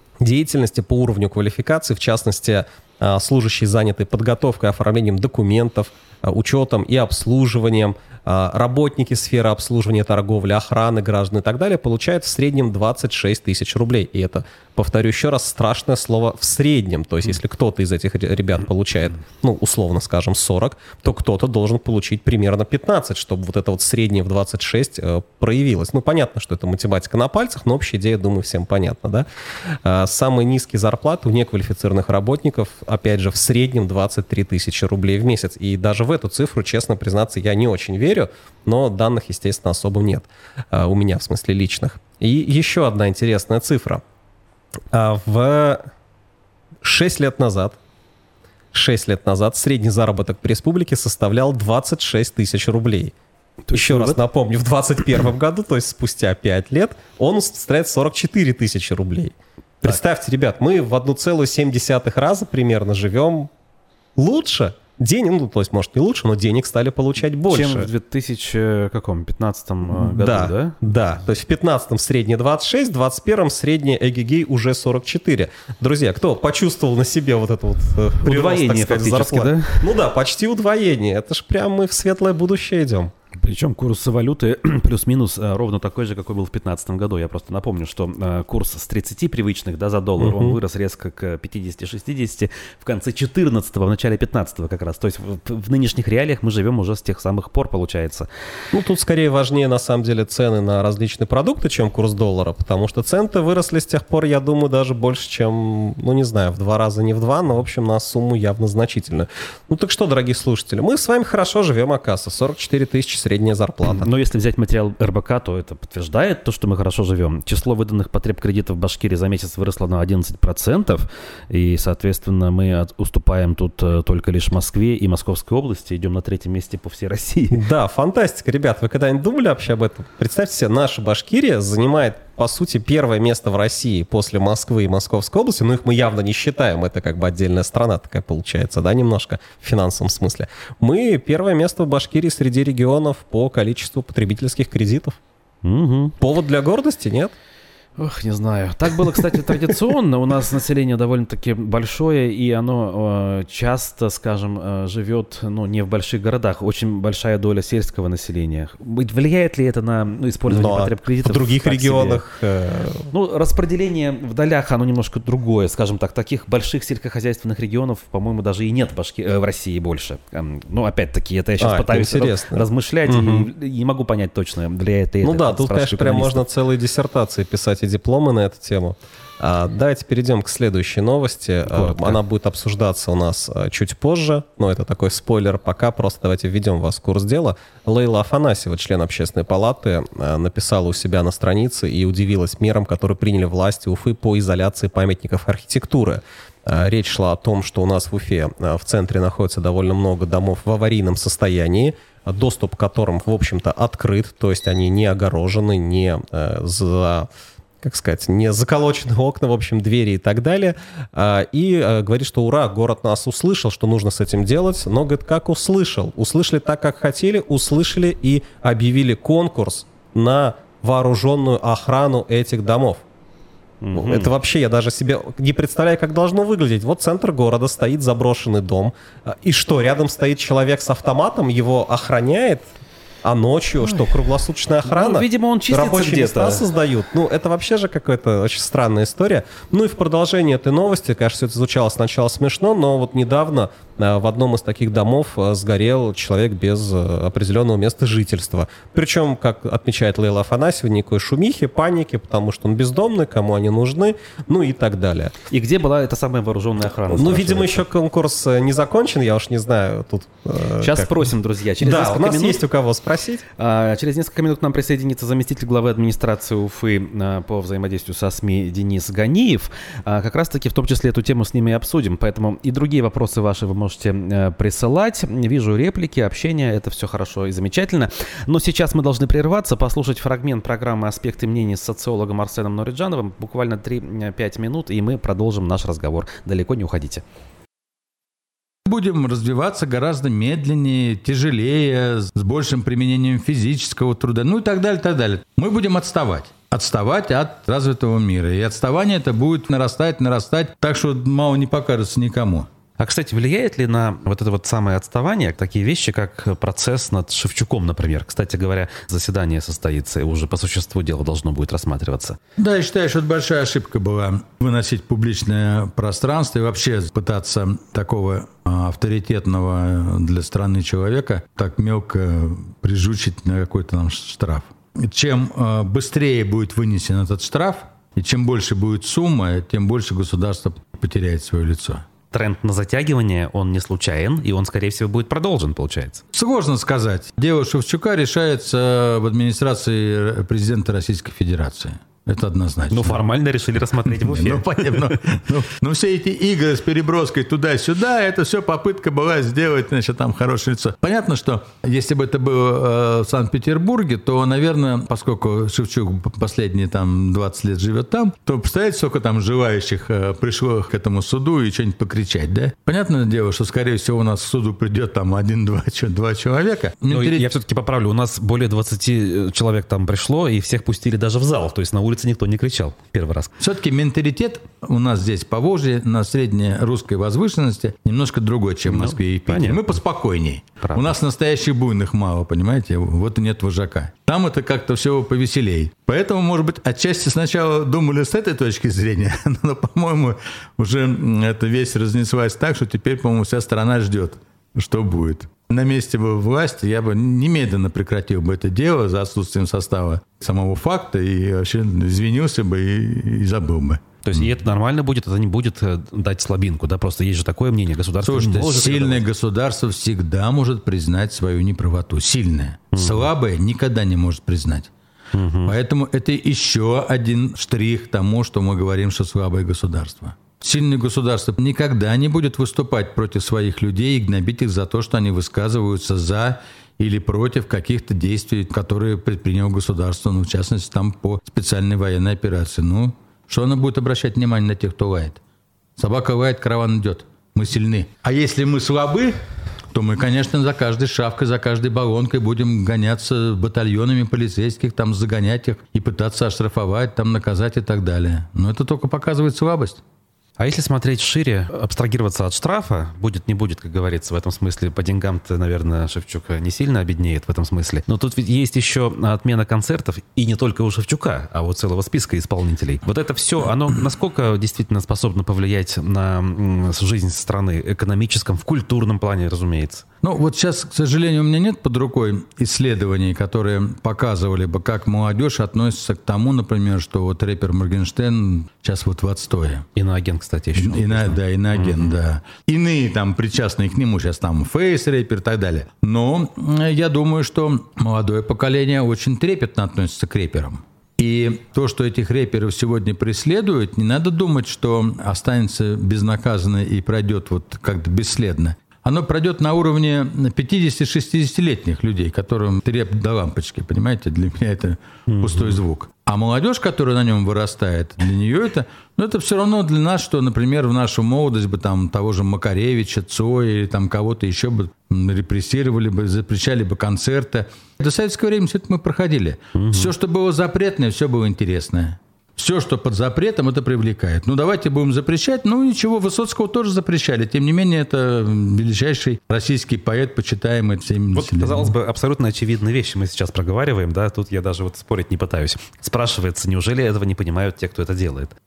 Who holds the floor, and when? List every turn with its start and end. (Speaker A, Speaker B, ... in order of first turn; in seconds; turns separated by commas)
Speaker A: 0.2-44.0, Speaker A: 44.9-45.9, Speaker A: 46.8-47.8, Speaker A: 48.7-53.1, Speaker B: 53.7-54.2, Speaker A: 53.7-63.5, Speaker A: 64.2-67.9, Speaker B: 67.5-70.8, Speaker A: 70.0-83.1, Speaker B: 78.2-79.8, Speaker B: 83.3-98.3, Speaker A: 90.2-90.6, Speaker A: 98.7-114.1, Speaker B: 113.9-127.6, Speaker A: 127.5-145.2, Speaker B: 145.6-146.1, Speaker A: 146.2-147.3, Speaker B: 148.0-162.2, Speaker A: 160.5-163.1, Speaker B: 163.1-176.4, Speaker A: 171.6-173.5, Speaker A: 175.2-207.3, Speaker B: 181.7-182.2, Speaker A: 207.8-223.0, Speaker B: 223.8-224.3, Speaker A: 223.9-232.7, Speaker A: 233.2-255.3, Speaker B: 234.8-236.6, Speaker B: 255.5-257.8, Speaker A: 257.1-261.2, Speaker B: 260.8-262.6, Speaker A: 261.8-263.4, Speaker B: 263.6-287.2, Speaker C: 288.8-302.7, Speaker B: 303.0-312.4, Speaker C: 312.6-332.0, Speaker B: 332.3-336.2, Speaker C: 336.3-343.2, Speaker B: 342.9-345.2, Speaker C: 344.1-367.4, Speaker B: 367.1-373.5, Speaker C: 373.6-404.0, Speaker B: 378.9-379.8, Speaker B: 380.8-381.1, Speaker B: 404.2-409.2, Speaker C: 408.2-414.9, Speaker B: 412.9-413.3, Speaker B: 415.3-415.7, Speaker C: 415.6-435.4, Speaker C: 436.0-450.0, Speaker B: 450.6-470.0, Speaker C: 470.2-479.9, Speaker B: 479.9-482.1, Speaker C: 480.8-531.9, Speaker B: 505.3-505.8, Speaker B: 519.8-520.1, Speaker B: 531.3-538.5